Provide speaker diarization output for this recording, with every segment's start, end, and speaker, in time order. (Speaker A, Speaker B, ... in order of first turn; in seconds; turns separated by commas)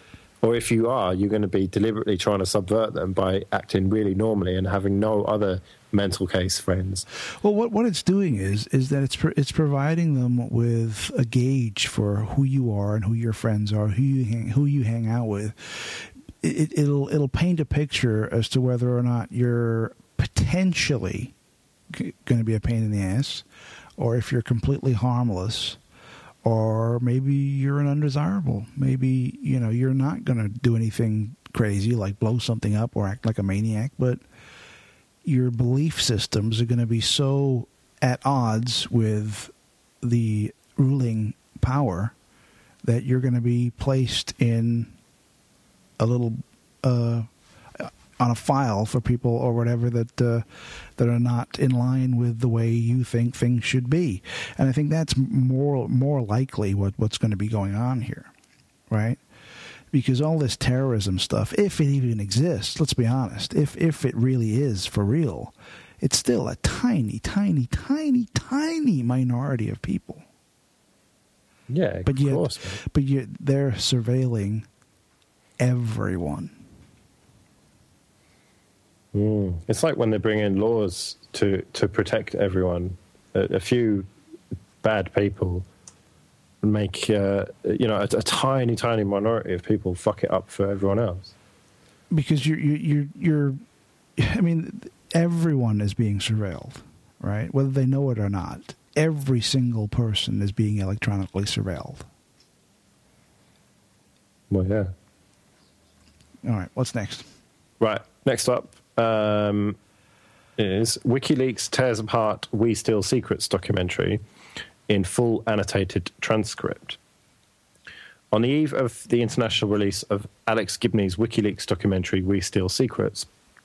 Speaker A: 0.4-7.1, Speaker B: 7.4-21.3, Speaker B: 21.9-23.5, Speaker B: 24.0-25.8, Speaker B: 26.4-34.2, Speaker B: 35.2-42.1, Speaker B: 42.8-45.0, Speaker B: 46.0-58.3, Speaker B: 58.9-59.2, Speaker B: 59.9-70.3, Speaker A: 71.7-72.8, Speaker B: 72.0-74.7, Speaker B: 75.6-76.6, Speaker A: 79.1-84.1, Speaker A: 84.8-85.7, Speaker A: 86.6-91.3, Speaker B: 92.1-93.6, Speaker B: 94.2-102.1, Speaker A: 104.5-104.9, Speaker B: 106.4-107.3, Speaker A: 107.8-109.8, Speaker A: 110.6-114.2, Speaker A: 114.9-117.0, Speaker A: 118.3-123.3